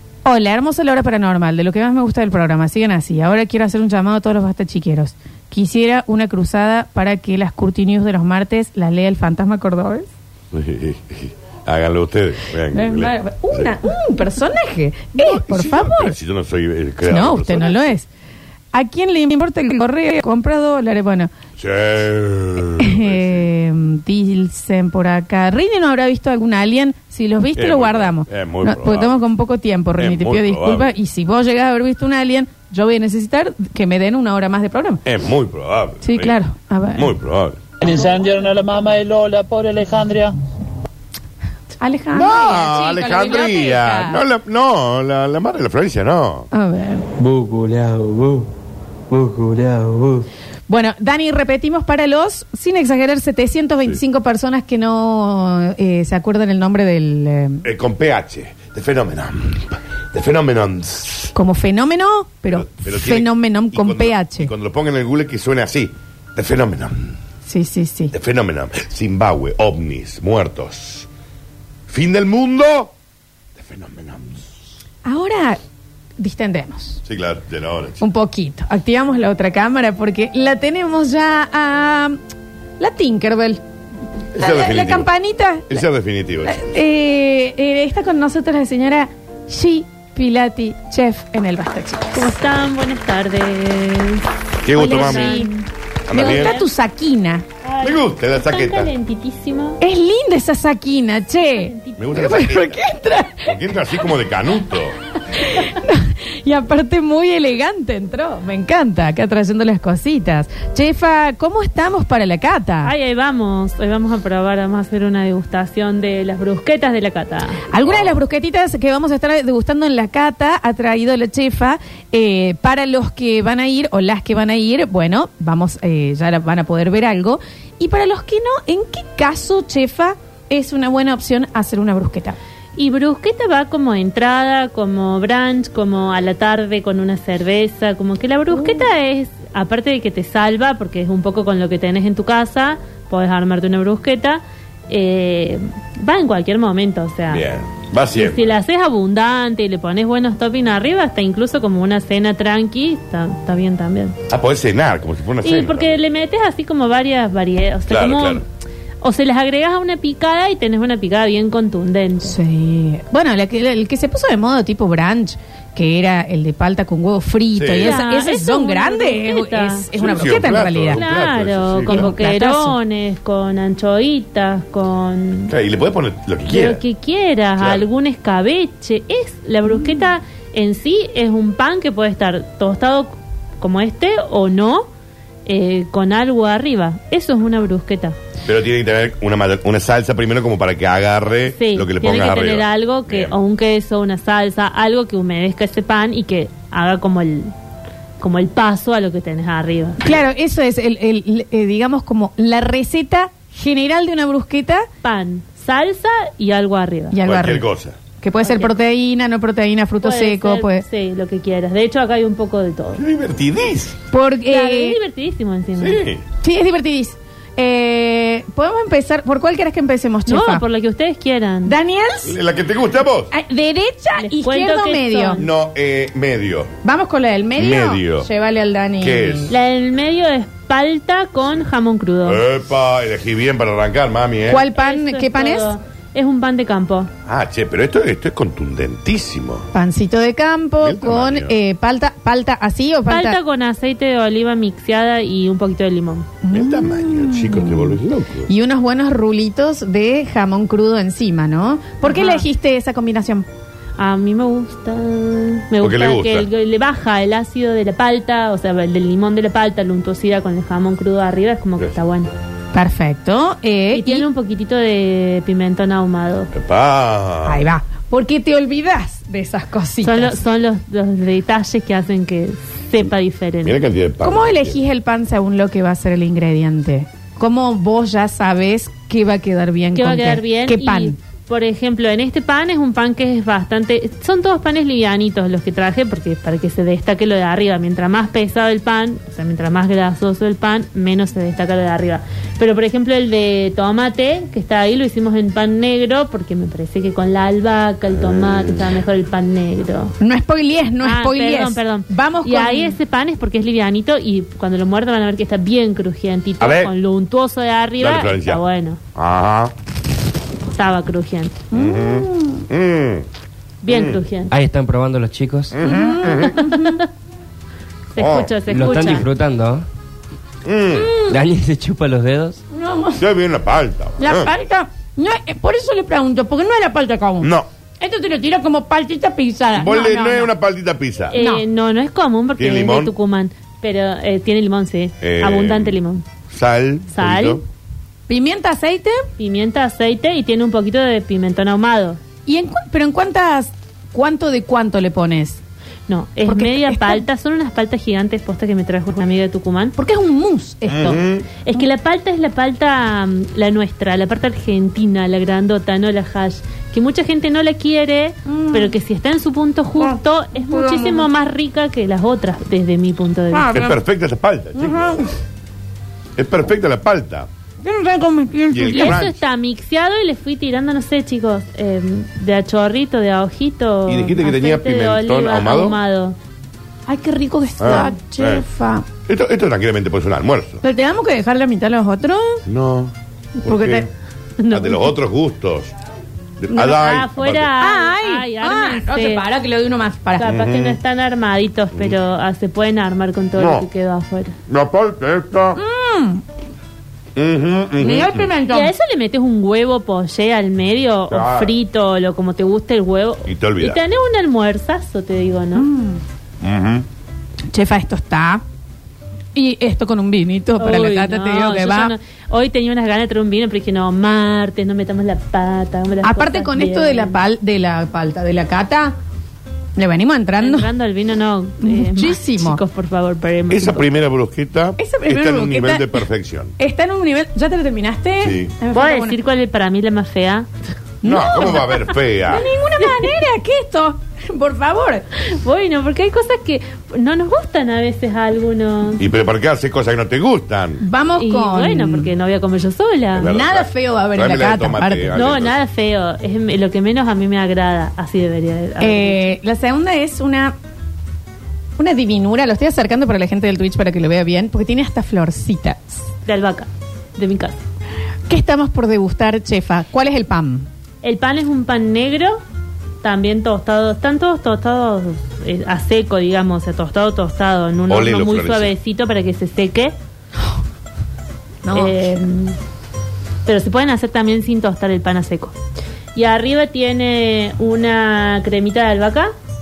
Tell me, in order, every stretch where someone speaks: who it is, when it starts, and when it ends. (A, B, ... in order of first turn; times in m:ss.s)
0:00.2-0:10.1 A
0:10.5-0:13.7 B
0:12.7-0:16.2 A
0:15.2-0:17.9 B
0:17.1-0:18.1 A
0:18.7-0:21.3 A
0:21.6-0:23.5 B
0:22.8-0:35.0 A
0:27.6-0:29.2 B
0:30.0-0:30.9 B
0:35.0-0:36.4 B
0:36.0-0:37.1 A
0:37.0-0:37.6 B
0:37.8-0:40.3 C
0:41.8-0:44.2 A
0:42.1-0:46.5 B
0:46.5-0:47.1 A
0:47.2-0:48.5 D
0:49.1-0:50.3 D
0:50.7-0:57.6 A
0:57.6-1:01.3 B
1:01.3-1:04.5 A
1:02.5-1:07.2 B
1:07.4-1:08.1 A
1:08.1-1:11.1 B
1:11.9-1:12.9 B
1:13.6-1:14.5 B
1:15.0-1:15.6 A
1:16.2-1:17.0 A
1:17.0-1:18.0 B
1:18.0-1:22.2 A
1:22.8-1:23.6 A
1:24.4-1:25.1 B
1:24.4-1:25.8 A
1:25.7-1:26.6 B
1:26.5-1:32.4 A
1:32.2-1:34.2 E
1:34.6-1:35.4 B
1:34.8-1:35.5 A
1:34.8-1:36.7 E
1:36.1-1:36.6 B
1:36.1-1:37.4 A
1:37.6-1:39.8 E
1:37.8-1:38.9 B
1:39.8-1:43.5 A
1:41.5-1:42.0 E
1:42.0-1:42.8 B
1:43.4-1:45.0 B
1:45.3-1:52.9 A
1:52.8-1:57.6 E
1:57.7-2:12.4 A
1:57.8-1:58.1 B
2:12.8-2:27.4 E
2:18.5-2:18.9 A
2:27.3-2:28.4 B
2:28.1-2:34.2 E
2:34.3-2:36.0 B
2:35.4-2:38.4 E
2:37.9-2:38.4 B
2:39.0-2:42.4 E
2:42.2-2:51.0 A
2:47.6-2:48.0 B
2:47.8-2:49.8 E
2:50.0-2:52.1 B
2:50.9-2:55.5 E
2:51.9-2:52.8 A
2:55.5-2:56.8 B
2:56.5-3:04.9 E
2:57.6-2:57.8 B
3:05.5-3:08.2 E
3:08.4-3:13.3 B
3:11.5-3:17.5 E
3:18.2-3:20.0 E
3:20.0-3:24.9 A
3:25.0-3:27.2 E
3:27.1-3:27.7 A
3:27.2-3:28.0 B
3:28.2-3:30.8 A
3:28.4-3:28.7 E
3:30.0-3:33.0 E
3:33.0-3:34.0 B
3:34.1-3:35.0 A
3:34.5-3:36.1 E
3:35.8-3:36.2 B
3:36.4-3:40.6 A
3:40.3-3:41.8 E
3:41.7-3:42.4 A
3:42.2-3:43.3 B
3:43.3-3:45.4 A
3:44.2-3:45.5 E
3:45.4-3:46.7 B
3:46.8-3:49.5 A
3:47.6-3:48.3 B
3:49.0-3:49.5 B
3:49.5-3:52.4 E
3:52.2-3:54.6 B
3:54.5-3:55.7 A
3:54.8-3:57.1 E
3:57.3-3:59.7 B
3:59.7-4:03.4 A
4:00.8-4:01.5 B
4:03.1-4:06.3 E
4:06.4-4:13.5 A
4:06.5-4:08.5 B
4:12.0-4:12.4 E
4:14.0-4:22.3 E
4:15.8-4:16.5 B
4:22.7-4:24.3 A
4:23.9-4:26.5 E
4:26.5-4:27.6 B
4:27.4-4:30.4 A
4:30.0-4:33.8 E
4:33.6-4:34.8 B
4:34.2-4:41.2 A
4:40.0-5:00.2 E
4:58.1-4:58.8 B
5:00.2-5:03.0 A
5:01.0-5:09.0 E
5:06.6-5:06.9 B
5:08.0-5:08.6 B
5:09.2-5:09.7 B
5:10.7-5:11.6 E
5:11.7-5:12.6 A
5:11.7-5:13.2 B
5:13.8-5:14.5 E
5:13.9-5:14.2 B
5:14.5-5:15.8 F
5:15.7-5:16.6 B
5:15.8-5:17.0 A
5:16.6-5:17.0 E
5:18.2-5:19.3 E
5:18.2-5:19.2 B
5:18.7-5:19.8 F
5:20.6-5:21.2 B
5:20.9-5:21.4 A
5:21.3-5:22.6 F
5:22.7-5:23.2 A
5:23.2-5:24.5 B
5:24.2-5:27.5 A
5:27.4-5:27.7 B
5:28.0-5:30.5 A
5:29.8-5:31.4 B
5:31.3-5:36.2 E
5:31.3-5:31.6 A
5:32.6-5:33.1 B
5:35.2-5:36.0 B
5:36.5-5:37.6 B
5:37.1-5:37.6 E
5:38.3-5:39.2 A
5:39.4-5:42.2 E
5:42.5-5:45.6 A
5:46.1-5:50.0 E
5:46.5-5:47.2 A
5:50.0-5:51.2 A
5:50.9-5:51.5 B
5:51.6-6:03.7 E
5:58.5-5:58.9 A
6:00.0-6:01.3 A
6:03.5-6:04.0 A
6:03.7-6:05.3 B
6:04.8-6:05.2 A
6:06.4-6:07.5 B
6:07.8-6:09.2 A
6:08.7-6:09.4 B
6:08.9-6:16.4 E
6:14.1-6:16.0 B
6:17.1-6:19.0 A
6:17.8-6:18.6 B
6:19.3-6:20.8 B
6:20.8-6:22.6 A
6:22.7-6:23.1 B
6:23.6-6:24.1 A
6:23.7-6:24.1 B
6:24.6-6:25.2 E
6:24.7-6:25.9 B
6:26.6-6:27.7 B
6:26.7-6:29.4 E
6:27.8-6:30.5 A
6:30.4-6:34.6 E
6:30.4-6:31.0 B
6:33.6-6:33.9 B
6:34.7-6:35.8 B
6:35.8-6:36.4 A
6:37.4-6:38.5 B
6:38.0-6:38.9 A
6:38.7-6:45.9 E
6:41.3-6:41.7 B
6:43.5-6:44.0 B
6:45.8-6:46.2 A
6:46.6-6:47.0 B
6:47.7-6:48.6 A
6:49.6-6:52.1 A
6:50.8-6:57.4 E
6:56.2-6:59.2 A
7:00.0-7:00.9 A
7:00.6-7:04.1 E
7:01.8-7:02.8 A
7:03.7-7:06.7 B
7:05.0-7:06.2 A
7:06.8-7:09.4 A
7:08.4-7:08.7 B
7:08.9-7:10.7 E
7:11.2-7:11.9 A
7:11.2-7:12.7 B
7:11.6-7:11.9 E
7:12.5-7:15.2 A
7:15.6-7:19.2 E
7:19.2-7:21.0 B
7:21.0-7:22.3 A
7:21.4-7:23.5 E
7:23.4-7:25.8 B
7:23.4-7:25.4 A
7:25.4-7:29.5 E
7:29.0-7:30.8 A
7:32.0-7:36.3 A
7:36.5-7:37.8 E
7:38.5-7:40.9 A
7:41.2-7:42.6 E
7:43.2-7:50.2 E
7:48.1-7:48.9 B
7:51.8-7:52.4 A
7:51.9-7:52.8 E
7:53.7-7:55.8 E
7:56.4-7:59.5 E